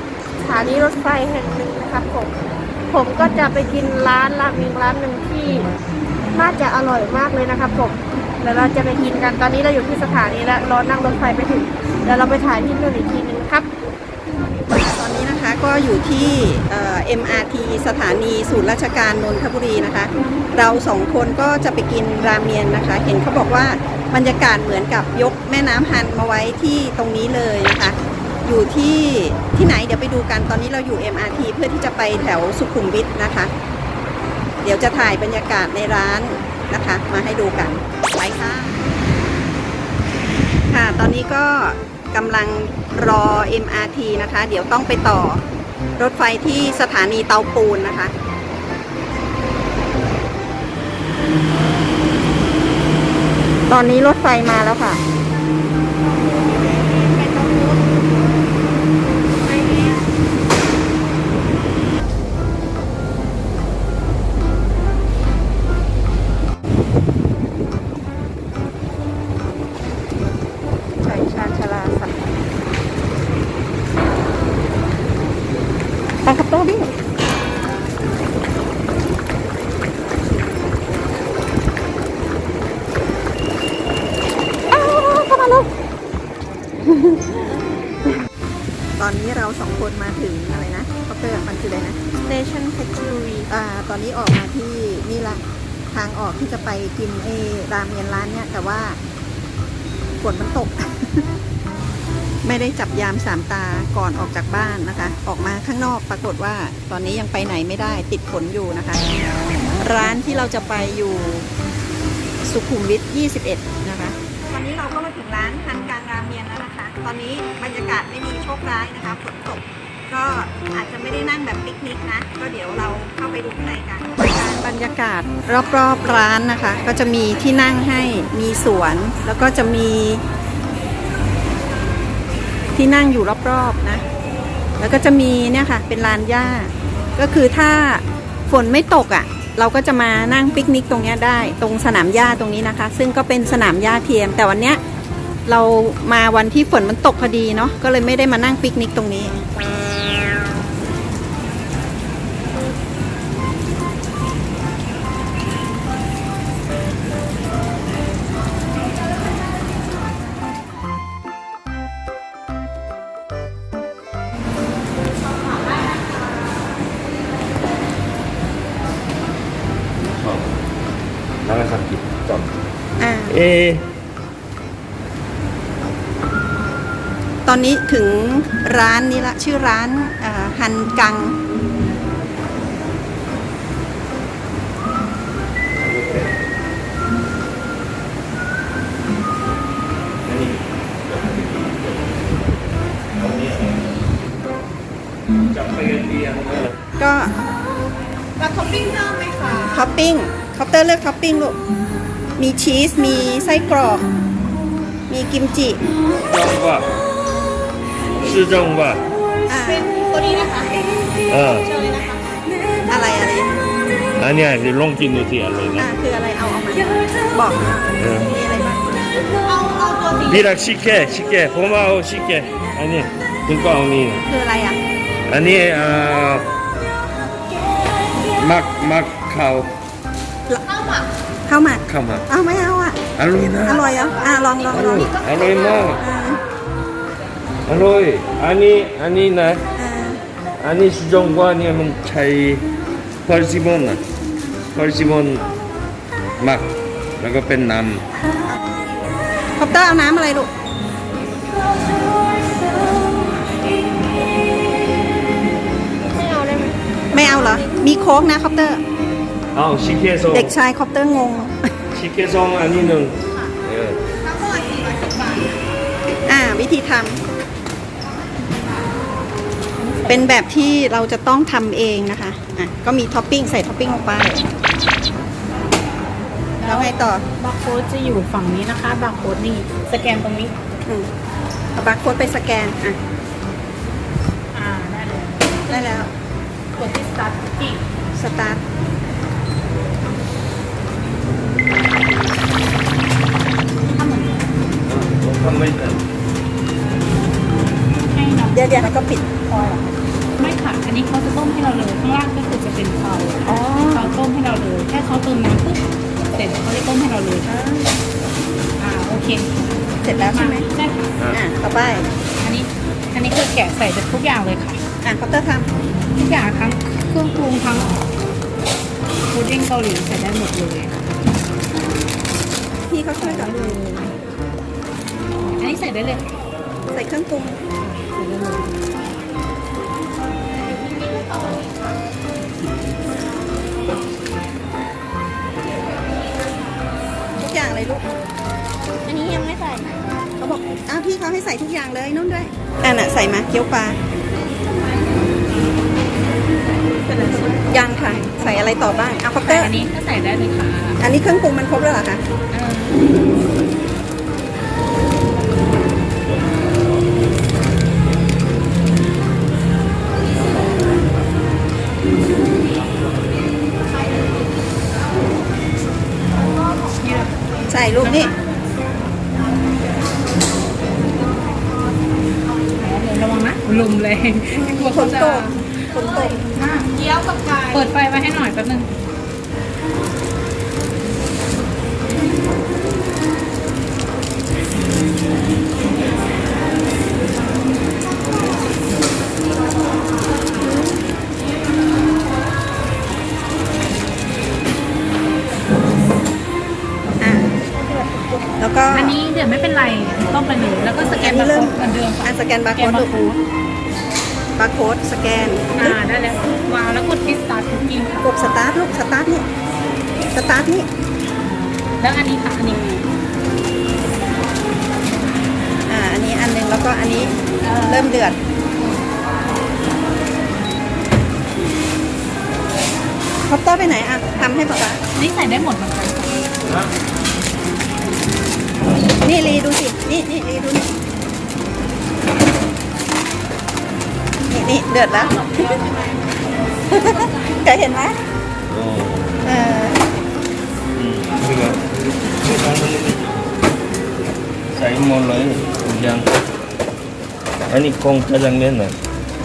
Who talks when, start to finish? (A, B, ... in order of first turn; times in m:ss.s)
0:00.4-0:02.3 A
0:02.9-0:05.7 A
0:06.3-0:13.7 A
0:14.7-0:33.5 B
0:34.6-0:38.8 B
0:40.7-0:45.4 B
0:46.0-0:48.1 B
0:53.7-0:55.0 B
0:56.5-0:57.9 A
0:59.4-1:00.0 A
1:11.0-1:12.1 B
1:16.2-1:16.9 B
1:24.7-1:25.7 B
1:26.9-1:27.3 B
1:29.0-1:32.0 B
1:32.1-1:33.5 A
1:33.5-1:39.0 B
1:40.2-1:41.2 B
1:42.4-1:49.0 B
1:49.8-1:51.5 B
1:52.4-2:10.2 B
2:12.7-2:14.0 B
2:14.8-2:24.8 B
2:25.5-2:29.4 B
2:50.0-2:50.5 C
2:51.4-2:52.5 C
2:53.0-2:53.4 B
2:53.3-2:53.8 C
2:57.4-3:01.4 B
3:05.8-3:06.3 C
3:10.2-3:12.5 C
3:13.2-3:13.8 C
3:15.5-3:16.8 C
3:17.0-3:17.3 B
3:18.4-3:19.9 A
3:19.7-3:21.6 B
3:22.4-3:24.0 B
3:25.1-3:25.8 B
3:26.2-3:26.9 C
3:28.2-3:29.0 C
3:29.5-3:29.9 B
3:29.6-3:30.8 A
3:31.3-3:31.7 C
3:31.6-3:32.2 A
3:32.9-3:33.6 B
3:34.2-3:35.9 C
3:35.8-3:39.1 B
3:38.0-3:38.4 C
3:39.3-3:40.5 A
3:40.2-3:44.2 C
3:44.2-3:44.8 B
3:45.3-3:46.4 C
3:48.4-3:49.7 C
3:51.5-3:53.0 B
3:51.8-3:52.2 C
3:53.2-3:53.9 C
3:53.6-3:55.2 B
3:54.0-3:54.7 A
3:54.7-3:56.0 C
3:56.0-3:56.4 B
3:57.6-3:59.6 C
3:59.7-4:00.2 B
4:00.6-4:02.7 C
4:03.2-4:04.0 C
4:04.7-4:05.5 C
4:06.4-4:08.0 C
4:09.6-4:10.5 B
4:16.1-4:17.7 A
4:17.1-4:18.8 B
4:19.5-4:20.5 C
4:20.3-4:21.7 B
4:21.9-4:24.0 C
4:24.2-4:25.4 A
4:26.2-4:27.2 B
4:29.8-4:30.4 D
4:30.1-4:34.4 B
4:36.6-4:40.5 D
4:36.6-4:37.2 B
4:41.8-4:43.0 B
4:44.5-4:46.1 D
4:45.7-4:46.1 B
4:46.8-4:47.8 D
4:48.1-4:48.6 B
4:53.9-4:54.5 D
4:54.8-4:56.0 C
4:58.1-4:58.9 D
4:58.5-4:59.2 B
4:59.4-5:05.8 D
5:03.4-5:04.2 B
5:06.3-5:07.5 D
5:07.4-5:07.9 B
5:08.8-5:09.5 D
5:10.0-5:10.7 B
5:10.0-5:11.0 D
5:11.2-5:11.4 C
5:11.3-5:12.1 B
5:12.4-5:14.8 D
5:15.0-5:15.7 B
5:16.1-5:17.9 D
5:19.3-5:20.9 D
5:22.9-5:24.1 B
5:23.2-5:24.1 D
5:25.4-5:26.3 D
5:26.9-5:27.6 B
5:27.8-5:28.8 D
5:37.4-5:38.0 B
5:39.0-5:39.9 A
5:40.4-5:44.0 B
5:47.2-5:47.5 A
5:47.6-5:49.7 B
5:49.4-5:51.0 D
5:51.0-5:52.2 B
5:52.5-5:53.0 D
6:07.0-6:07.4 D
6:07.7-6:08.3 B
6:08.0-6:08.3 D
6:12.8-6:15.6 D
6:14.5-6:16.4 B
6:16.5-6:16.9 D
6:17.0-6:17.8 A
6:17.7-6:18.9 D
6:37.2-6:37.5 B
6:38.6-6:39.2 B
6:38.9-6:43.4 D
6:41.0-6:43.1 B
6:44.6-6:46.0 B
6:45.8-6:48.3 D
6:48.2-6:49.5 B
6:50.3-6:50.9 B
6:51.4-6:52.8 D
6:52.6-6:53.0 B
6:55.9-6:58.4 B
6:57.6-6:58.0 D
7:03.5-7:05.0 B
7:05.1-7:06.8 D
7:09.2-7:10.9 B
7:14.5-7:15.8 B
7:15.4-7:16.2 D
7:16.9-7:18.2 B
7:18.7-7:19.4 C
7:19.4-7:20.0 B
7:20.9-7:21.8 C
7:22.4-7:23.4 C
7:24.7-7:26.3 C
7:27.7-7:28.9 C